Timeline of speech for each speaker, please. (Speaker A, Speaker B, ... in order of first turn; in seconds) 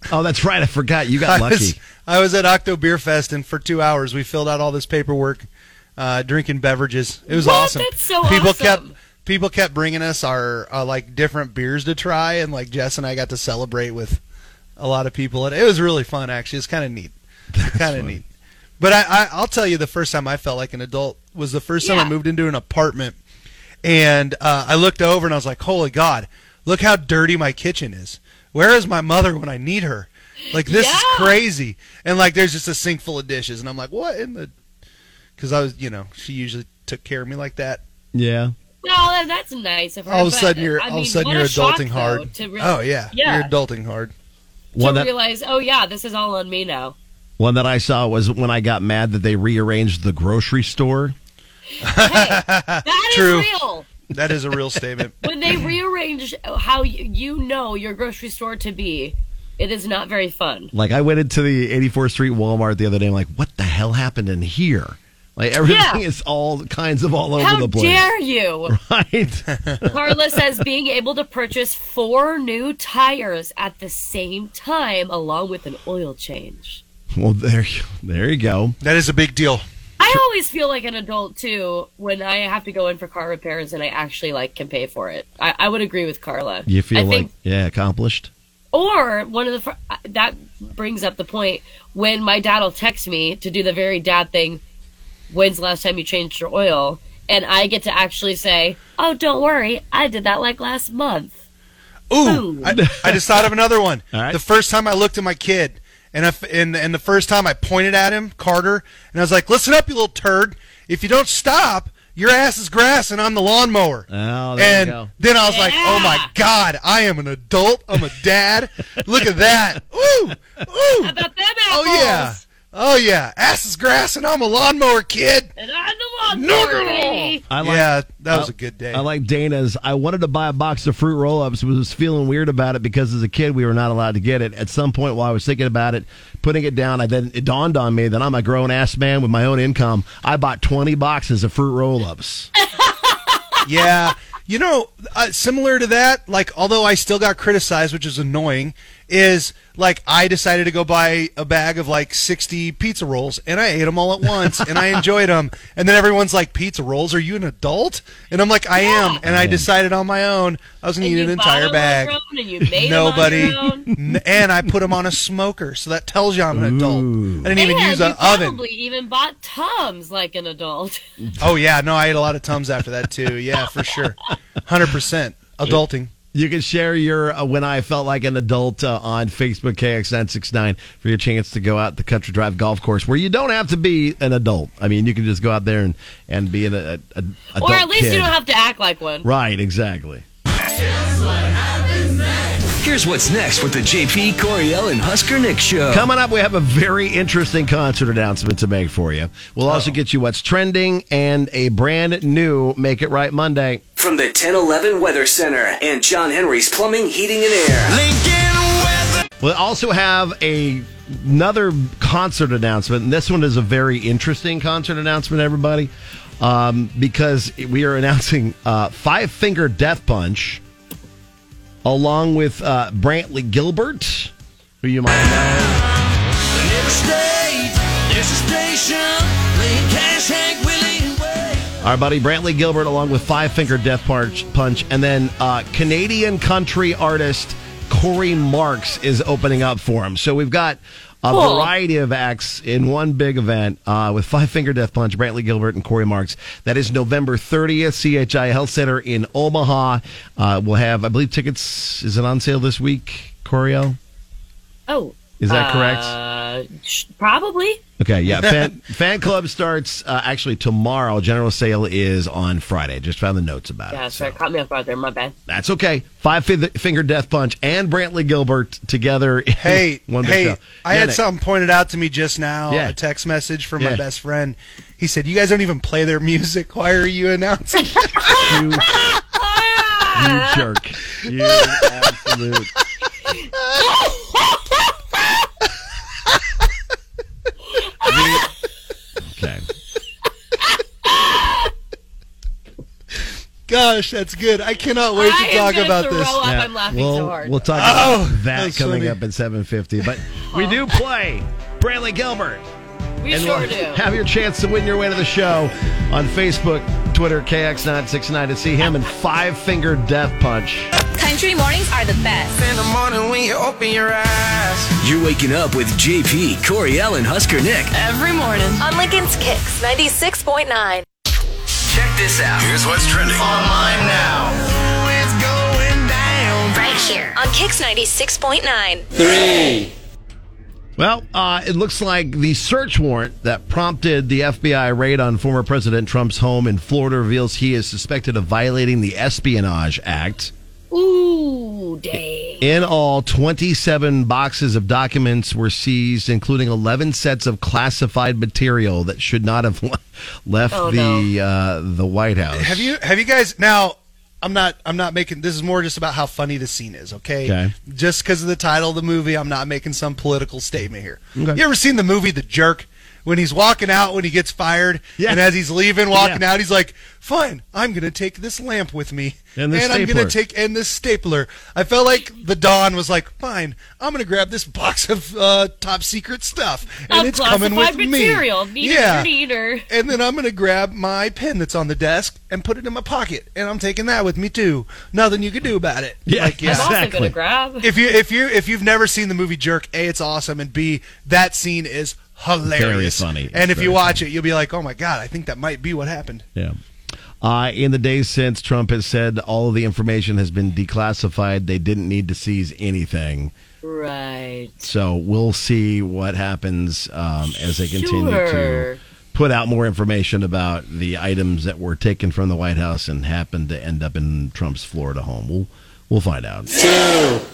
Speaker A: 0.1-1.8, 17.6-18.2, 38.1-38.5, 44.7-45.1, 47.4-51.1, 60.7-68.1, 68.7-69.4, 77.1-78.8, 86.7-88.3, 102.7-103.5, 104.1-104.4, 114.1-115.1, 127.5-142.5, 159.2-159.7, 163.5-164.7, 166.5-167.5, 171.2-171.5, 176.3-188.3, 189.2-190.2, 195.9-203.8, 209.4-220.6, 221.8-225.8, 231.8-254.0, 255.4-256.1, 258.0-264.4, 265.5-271.2, 272.7-273.0, 273.8-274.0, 278.4-279.0, 280.1-282.7, 288.0-288.4, 289.2-289.6, 296.4-302.6, 303.3-310.9, 323.3-324.6, 331.0-340.5, 342.6-352.9, 357.4-357.7, 361.4-361.6, 365.2-365.5, 366.1-366.4, 369.6-370.3, 386.2-387.3, 392.6-394.2, 397.4-403.5, 404.8-416.7
Speaker B: 1.2-5.5, 6.0-14.2, 14.8-18.2, 18.8-23.2, 23.8-34.5, 35.4-37.8, 40.1-44.1, 51.8-53.5, 54.1-55.6, 78.8-79.6, 102.1-121.2, 121.7-125.5, 126.7-129.0, 143.6-162.1, 162.7-168.6, 171.4-176.1, 258.3-258.7, 269.6-278.5, 293.7-296.4, 297.7-299.2, 352.5-379.3, 379.9-386.9, 387.8-396.4
Speaker C: 7.3-8.9, 21.8-22.1, 30.7-31.4, 38.8-43.5, 44.8-47.0, 51.9-53.9, 55.2-60.7, 65.6-66.0, 67.4-68.7, 69.9-76.8, 80.0-87.3, 88.7-94.6, 95.3-101.3, 102.2-102.7, 115.4-116.3, 121.0-122.4, 125.6-127.4, 158.8-159.2, 161.0-163.9, 167.5-171.0, 187.6-189.3, 241.3-241.7, 254.9-257.8, 263.9-265.3, 279.1-280.6, 287.9-288.2, 295.1-297.6, 300.5-300.8, 303.2-304.1, 340.9-342.6, 350.7-351.3, 377.1-379.9, 386.6-387.9, 403.8-404.8, 407.8-409.0
Speaker D: 192.8-196.1, 204.0-208.0, 315.0-317.9, 321.9-323.4
Speaker E: 207.8-209.3, 226.6-231.6, 312.6-314.9, 324.7-327.0
Speaker F: 311.1-312.6, 318.8-321.0, 326.8-329.1